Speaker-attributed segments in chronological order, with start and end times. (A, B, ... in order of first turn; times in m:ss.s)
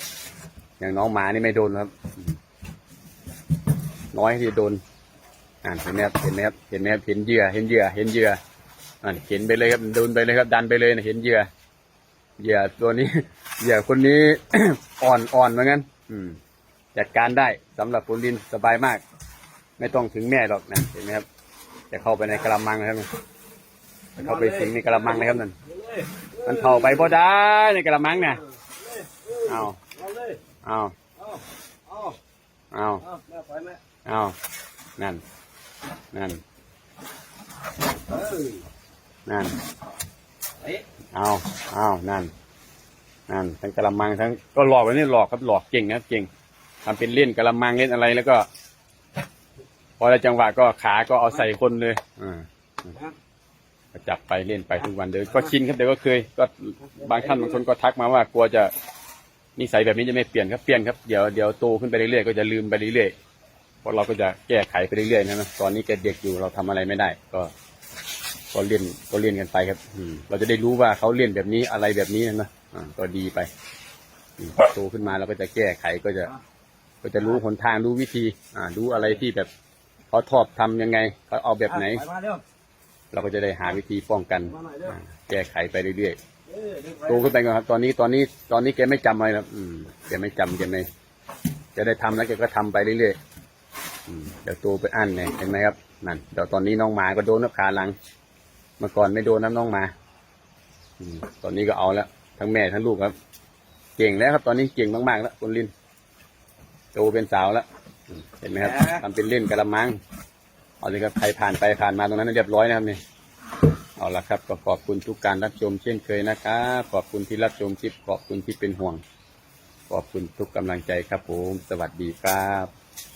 0:00.8-0:02.3 A
0:04.1-0:04.8 A
0:05.6-0:08.4 A
0:09.0-0:11.5 A
0:12.4-0:16.4 A
0:16.9-0:19.0 A
0:19.8-0:21.2 A
0:21.9-0:23.1 A
0:24.2-0:25.5 A
0:24.2-0:27.1 B
0:26.4-0:28.4 A
0:28.6-0:30.4 B
0:29.5-0:29.8 A
0:30.6-0:30.9 A
0:31.2-0:32.2 B
0:32.7-0:33.0 A
0:33.0-0:33.8 B
0:34.0-0:34.3 A
0:36.1-0:36.4 A
0:38.1-0:38.6 B
0:39.3-0:39.6 A
0:41.1-0:42.3 A
0:43.3-0:46.3 A
0:46.8-0:48.5 A
0:50.0-0:52.4 A
0:53.9-0:58.7 A
0:56.8-0:57.6 B
0:59.6-1:03.1 A
1:03.8-1:07.5 A
1:08.5-1:13.5 A
1:14.4-1:16.3 A
1:17.0-1:19.5 A
1:20.1-1:22.0 A
1:21.7-1:22.4 B
1:23.1-1:26.2 A
1:24.5-1:25.0 B
1:26.5-1:27.2 B
1:27.0-1:30.9 A
1:31.8-1:33.2 A
1:34.1-1:37.9 A
1:38.8-1:39.9 A
1:41.0-1:43.1 A
1:44.0-1:45.7 A
1:46.9-1:50.0 A
1:48.5-1:49.0 B
1:50.8-1:53.0 A
1:54.0-1:59.0 A
1:59.9-2:02.7 A